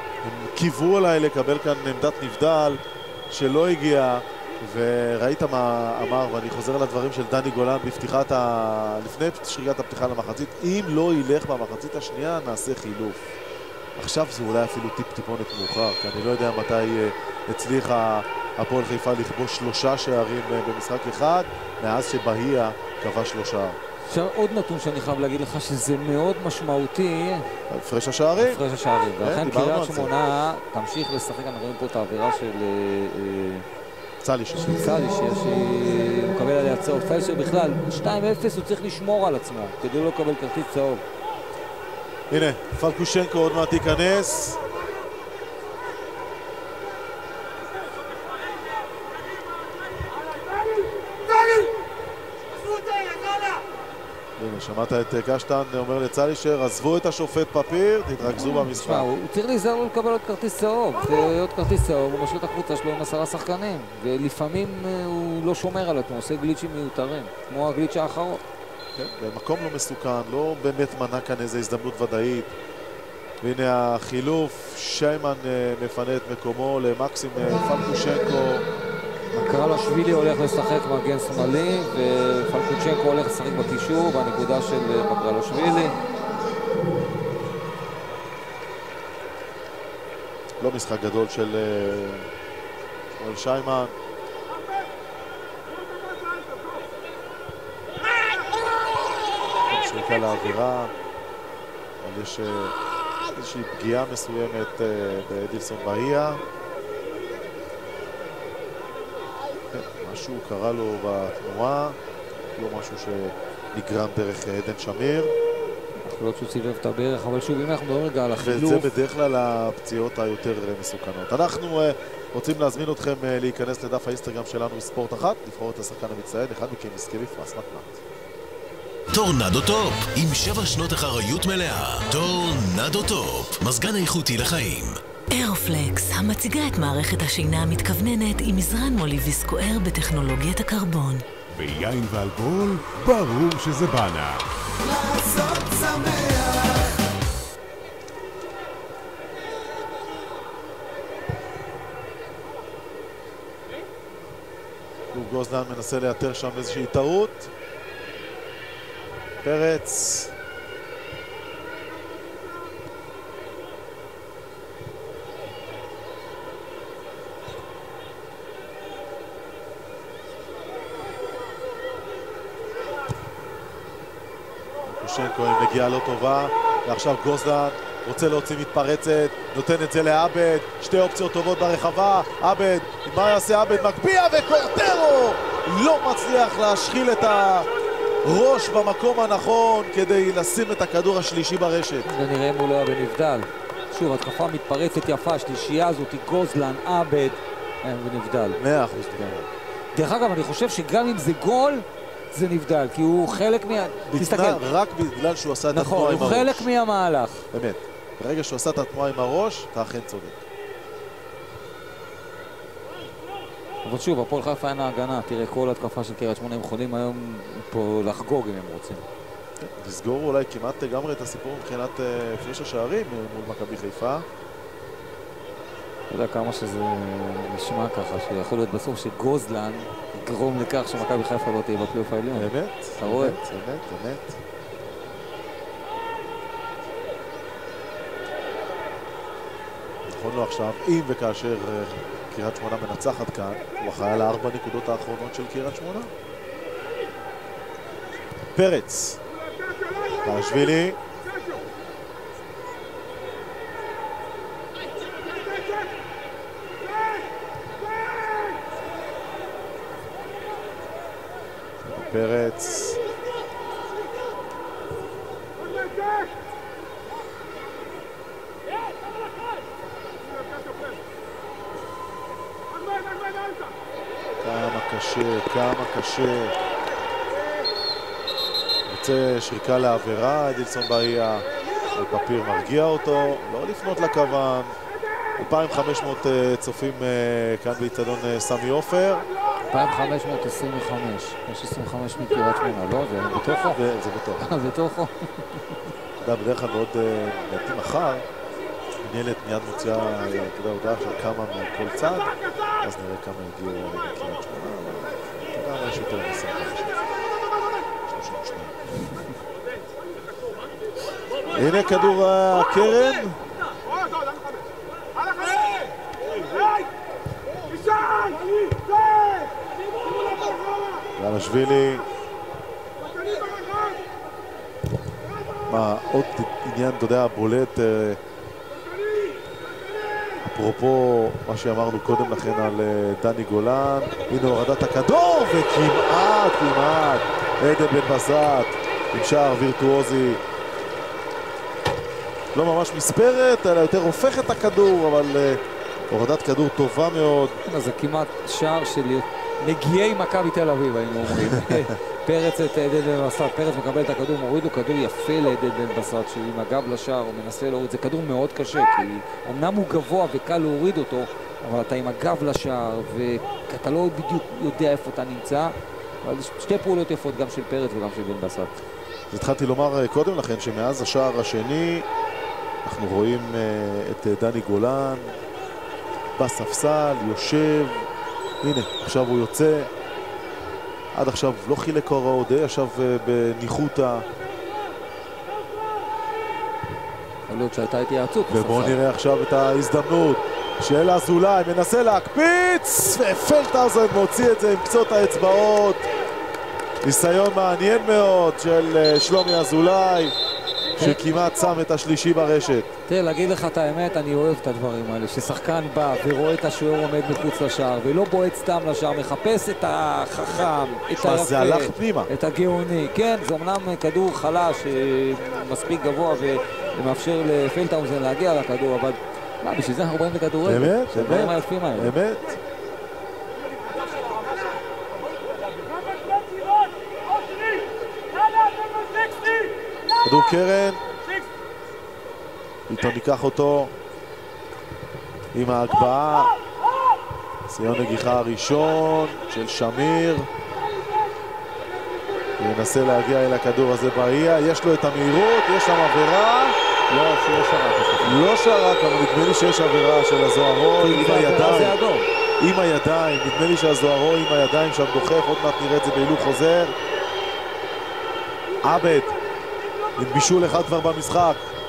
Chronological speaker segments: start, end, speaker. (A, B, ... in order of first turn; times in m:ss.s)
0:00.2-0:13.3 A
0:14.0-0:23.8 A
0:24.0-0:27.5 B
0:27.7-0:28.6 A
0:28.4-0:33.6 B
0:29.2-0:30.1 A
0:34.2-0:35.0 A
0:34.5-0:41.0 B
0:42.3-0:44.6 A
0:54.4-0:59.1 A
0:58.2-1:08.4 B
1:09.0-1:12.5 A
1:13.4-1:18.6 A
1:19.3-1:26.0 B
1:30.6-1:32.3 A
1:33.1-1:33.9 A
1:39.7-1:40.9 A
1:42.0-1:42.7 A
1:43.3-1:46.4 A
1:49.7-1:52.0 A
1:52.5-1:55.3 A
1:56.0-1:58.9 B
1:58.4-2:08.0 A
2:09.1-2:15.0 C
2:15.3-2:21.2 D
2:21.5-2:24.4 E
2:24.8-2:27.0 F
2:35.1-2:37.5 A
2:39.4-2:40.3 A
2:54.8-3:07.7 A
3:08.2-3:12.1 A
3:12.0-3:18.6 B
3:18.6-3:19.4 A
3:19.9-3:24.6 B
3:24.1-3:26.7 A
3:25.7-3:27.4 B
3:27.5-3:30.4 A
3:33.8-3:39.0 B
3:39.6-3:44.2 A
3:46.1-3:53.4 B
3:52.3-3:54.4 A
4:00.1-4:06.1 A
4:08.5-4:09.2 A
4:10.2-4:11.0 A
4:21.8-4:23.0 A
4:34.4-4:36.5 A
4:38.9-4:41.4 A
4:41.9-4:44.7 A
4:45.4-4:49.3 A
4:49.6-4:53.8 B
4:53.6-4:54.5 A
4:54.4-4:55.9 B
4:56.2-4:58.2 A
4:59.0-5:07.0 A
5:08.1-5:08.7 A
5:11.5-5:13.4 A
5:21.2-5:22.0 A
5:25.7-5:28.2 A
5:30.4-5:40.4 A
5:42.5-5:47.6 A
5:47.6-6:08.7 B
5:51.5-5:51.8 A
6:09.3-6:12.0 A
6:12.8-6:15.4 A
6:16.4-6:18.1 A
6:18.6-6:19.9 A
6:21.1-6:24.2 A
6:27.5-6:29.0 B
6:28.5-6:36.0 A
6:37.0-6:40.3 A
6:41.0-6:42.9 A
6:43.1-7:02.1 B
6:51.2-6:52.3 A
7:00.6-7:02.6 A
7:10.2-7:11.0 A
7:12.9-7:13.9 A
7:15.5-7:16.5 A
7:17.7-7:20.5 A
7:22.6-7:26.7 A
7:27.1-7:28.4 B
7:28.2-7:31.9 A
7:31.0-7:32.3 B
7:32.6-7:36.9 A
7:38.8-7:39.3 A
7:40.2-7:41.7 A